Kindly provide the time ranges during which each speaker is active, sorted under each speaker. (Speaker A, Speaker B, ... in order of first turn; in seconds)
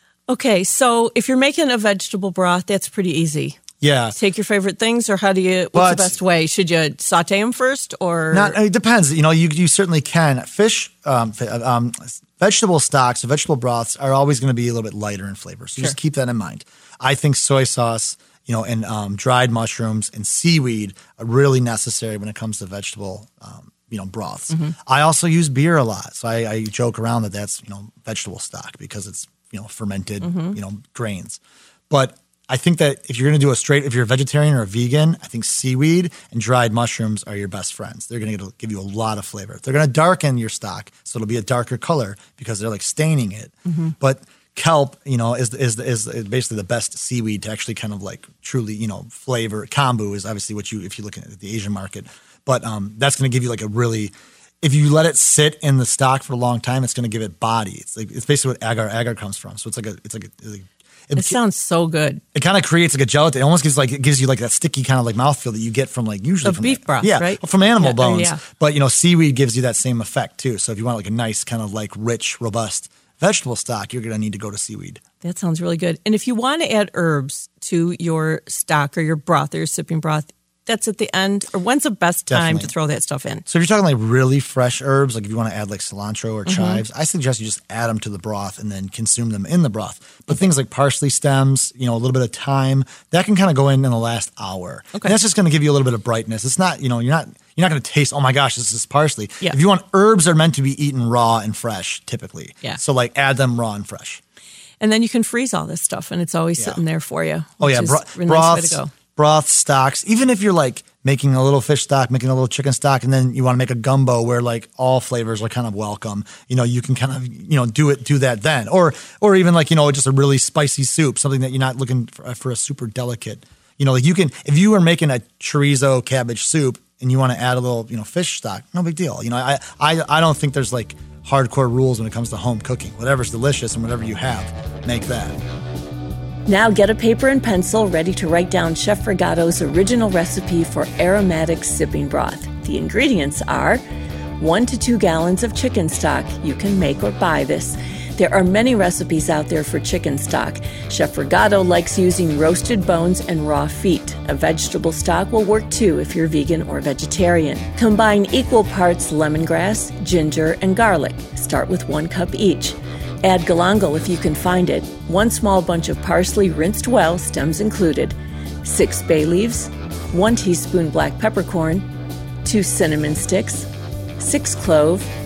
Speaker A: 0.3-8.6, 30.2-30.6, 43.7-43.9, 61.2-62.2, 66.4-68.4, 75.2-83.5, 86.5-86.8, 104.8-108.9
Speaker B: 3.8-4.2, 5.7-6.2, 8.3-61.4, 62.3-75.0, 82.3-82.7, 83.5-104.2, 106.6-106.8, 107.6-135.4
Speaker C: 136.5-143.8, 144.4-171.9, 172.4-175.1